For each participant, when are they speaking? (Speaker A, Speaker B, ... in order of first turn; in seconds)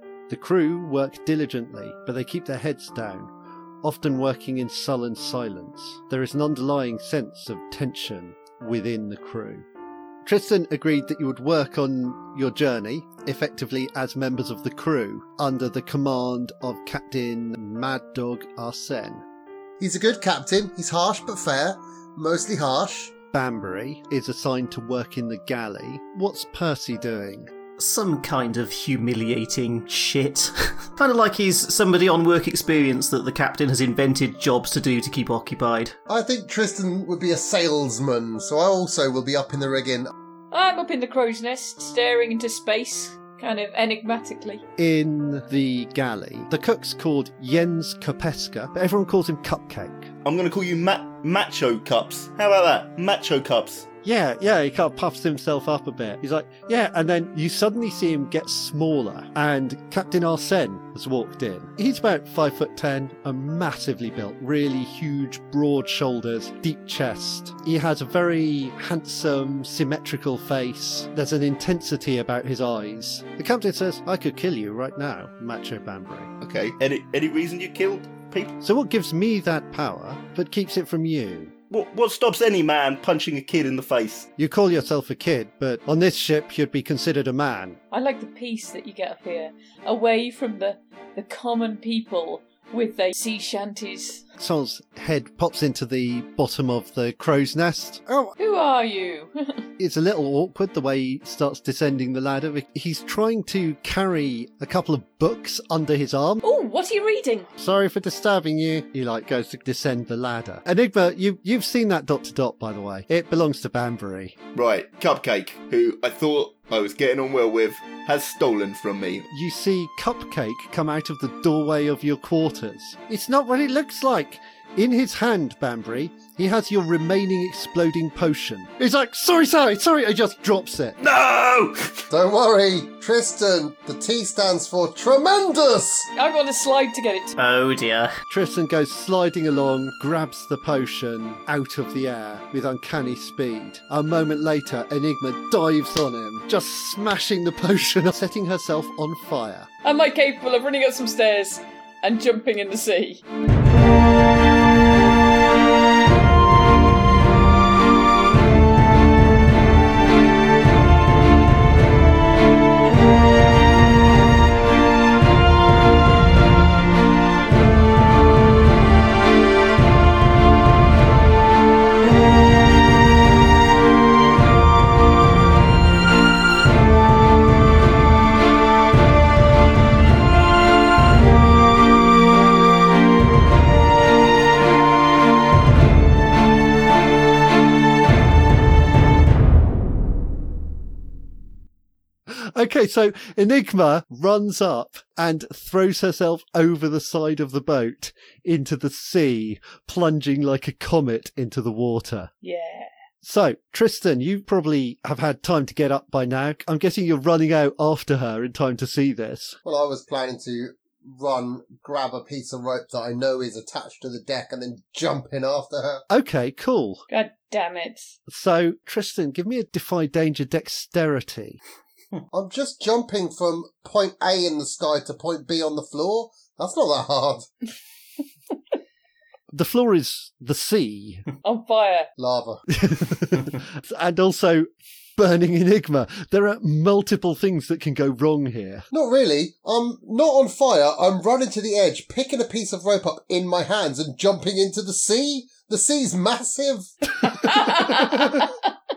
Speaker A: 0.3-3.3, 3.8-9.6, 10.2-19.2, 23.3-27.5, 44.8-50.1, 54.0-76.3, 78.6-81.5, 84.4-87.8, 94.4-98.3, 99.8-106.4, 107.6-114.3, 119.3-131.0, 138.3-149.7, 192.3-202.3, 203.2-209.6, 216.1-217.0, 218.3-221.6, 229.5-231.2, 232.7-238.9
Speaker B: 19.8-23.1, 36.1-40.1, 132.1-136.1, 209.6-216.0, 222.3-227.5, 232.2-232.6, 238.9-246.9
Speaker C: 27.8-35.9, 137.3-138.2
Speaker D: 40.5-44.6, 87.9-94.2, 98.4-99.6, 106.4-107.5, 136.1-137.3, 149.8-153.2, 202.4-202.9, 217.1-218.1, 231.4-232.1, 247.3-248.6
Speaker E: 50.2-53.9, 76.4-78.5, 81.7-84.3, 114.5-119.3